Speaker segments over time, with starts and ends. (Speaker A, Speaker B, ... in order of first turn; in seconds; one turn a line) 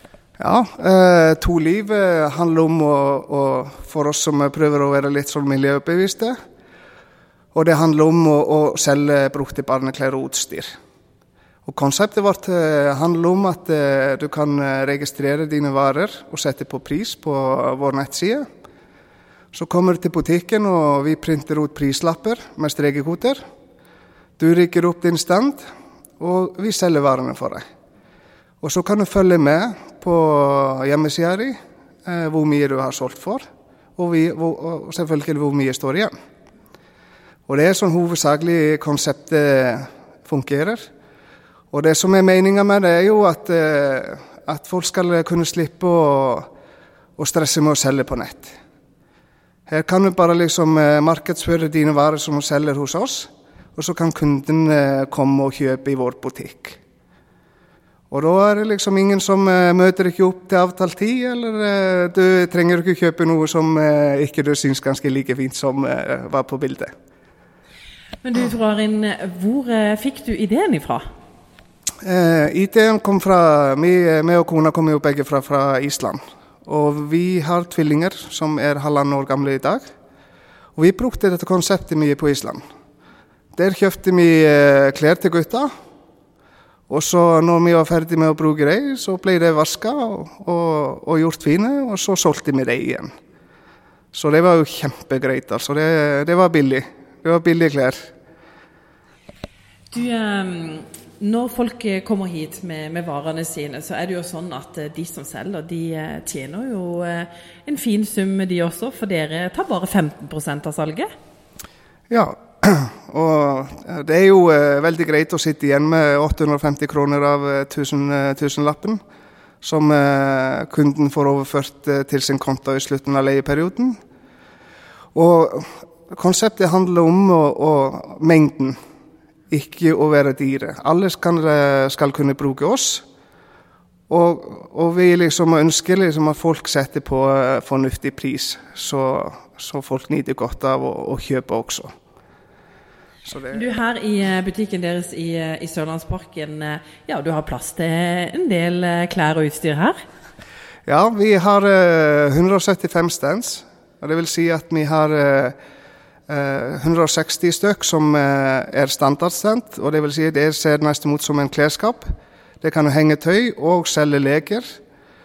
Speaker A: 0.4-6.4
Speaker A: 7.5-10.7
Speaker A: 11.7-18.4
Speaker A: 19.5-23.4
Speaker A: 24.4-25.6
Speaker A: 26.2-27.6
Speaker A: 28.6-33.4
Speaker A: 34.0-36.1
Speaker A: 37.5-40.9
Speaker A: 41.7-46.5
Speaker A: 47.2-48.6
Speaker A: 49.7-56.8
Speaker A: 58.1-66.9
Speaker B: 68.2-71.0
Speaker A: 72.0-79.8
Speaker A: 80.8-82.6
Speaker A: 83.5-85.7
Speaker A: 86.9-93.1
Speaker A: 94.1-98.1
Speaker B: 99.9-111.1
Speaker A: 112.1-119.0
Speaker A: 119.6-124.0
Speaker A: 125.1-128.8
Speaker A: 129.5-133.0
Speaker A: 134.1-141.9
Speaker A: 143.3-143.6
Speaker B: 143.5-150.0
Speaker A: 150.9-155.6
Speaker A: 156.3-164.8